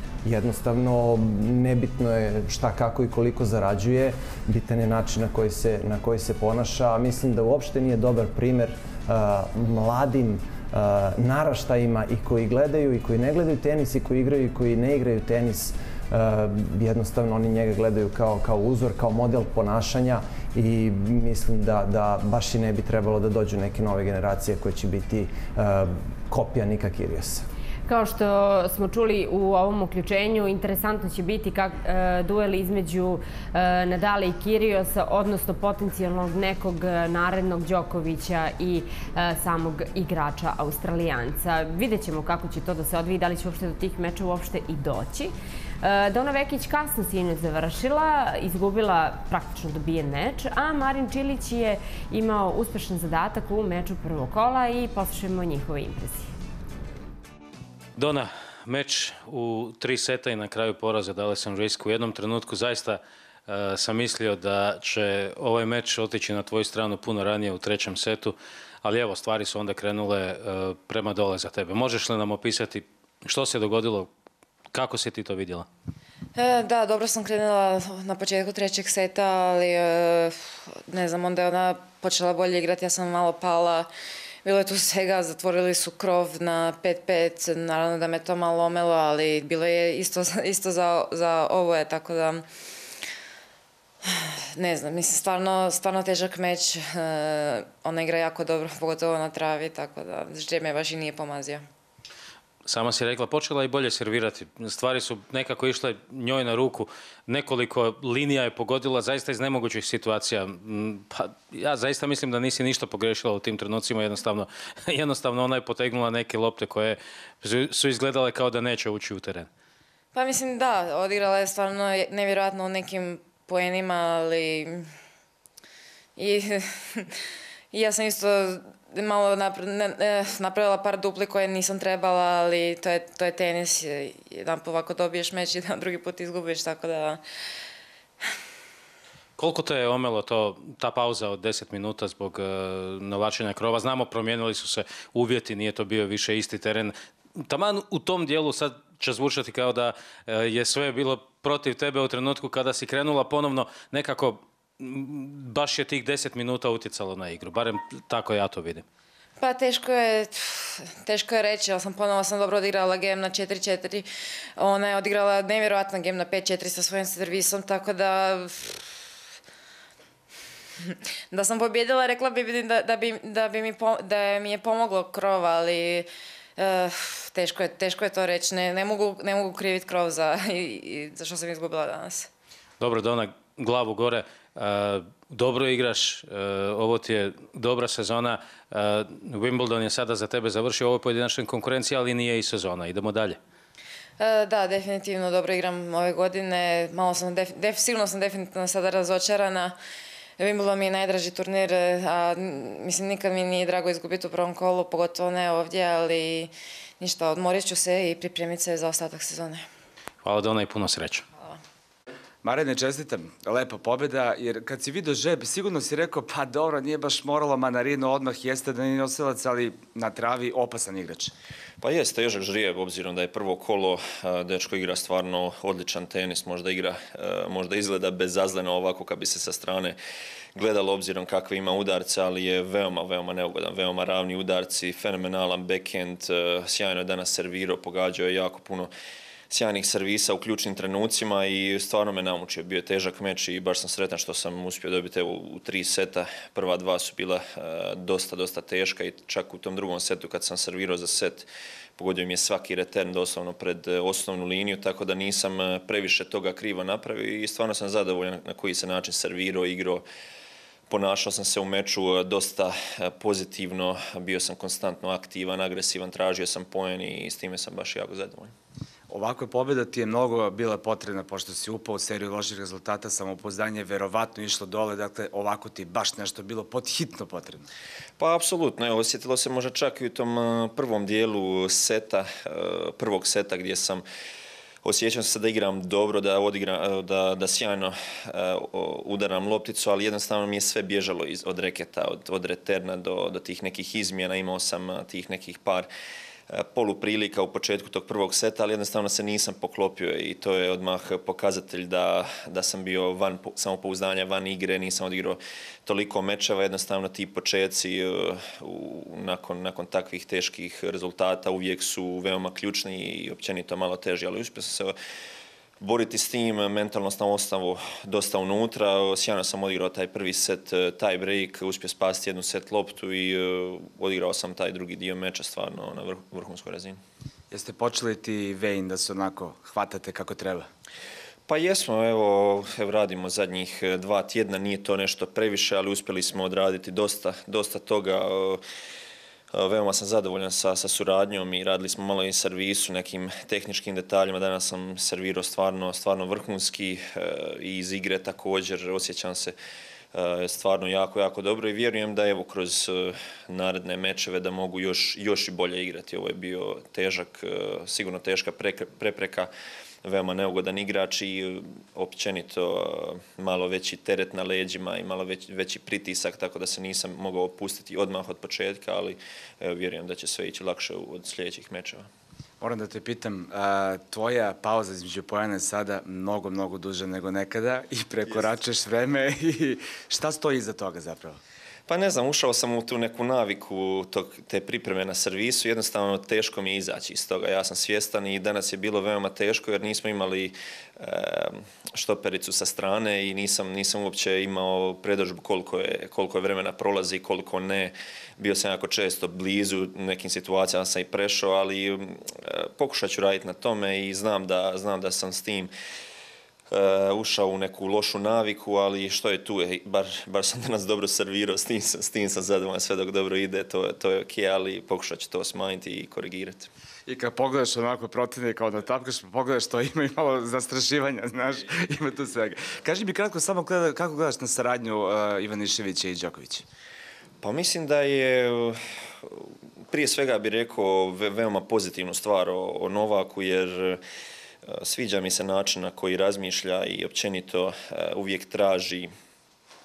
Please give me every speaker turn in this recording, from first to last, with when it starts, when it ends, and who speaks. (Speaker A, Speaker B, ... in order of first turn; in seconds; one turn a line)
Speaker A: 0.2-27.4
Speaker B: 27.9-56.3
Speaker C: 58.0-74.1
Speaker C: 74.7-75.7
Speaker D: 76.3-83.9
Speaker D: 84.4-92.4
Speaker D: 94.0-101.7
Speaker C: 102.7-119.5
Speaker D: 120.1-124.9
Speaker D: 126.2-127.1
Speaker D: 127.7-137.2
Speaker C: 139.4-158.8
Speaker D: 159.4-164.1
Speaker D: 164.6-168.8
Speaker D: 170.8-182.3
Speaker C: 182.8-193.4
Speaker D: 194.2-199.8
Speaker D: 200.4-209.6
Speaker C: 210.2-211.2
Speaker E: 212.4-221.3
Speaker F: 221.8-230.0
Speaker F: 230.5-238.9
Speaker F: 239.5-260.0
Speaker F: 260.9-268.5
Speaker E: 269.1-277.7
Speaker F: 278.2-284.0
Speaker F: 284.8-295.9
Speaker F: 296.5-314.9
Speaker F: 315.8-327.0
Speaker E: 327.5-330.7
Speaker F: 331.5-338.6
Speaker F: 339.5-349.5
Speaker F: 350.1-359.5
Speaker F: 360.0-372.1
Speaker E: 372.6-381.4
Speaker F: 381.9-405.7
Speaker F: 406.7-416.7
Speaker E: 417.1-426.6
Speaker F: 427.4-434.0
Speaker F: 434.6-439.1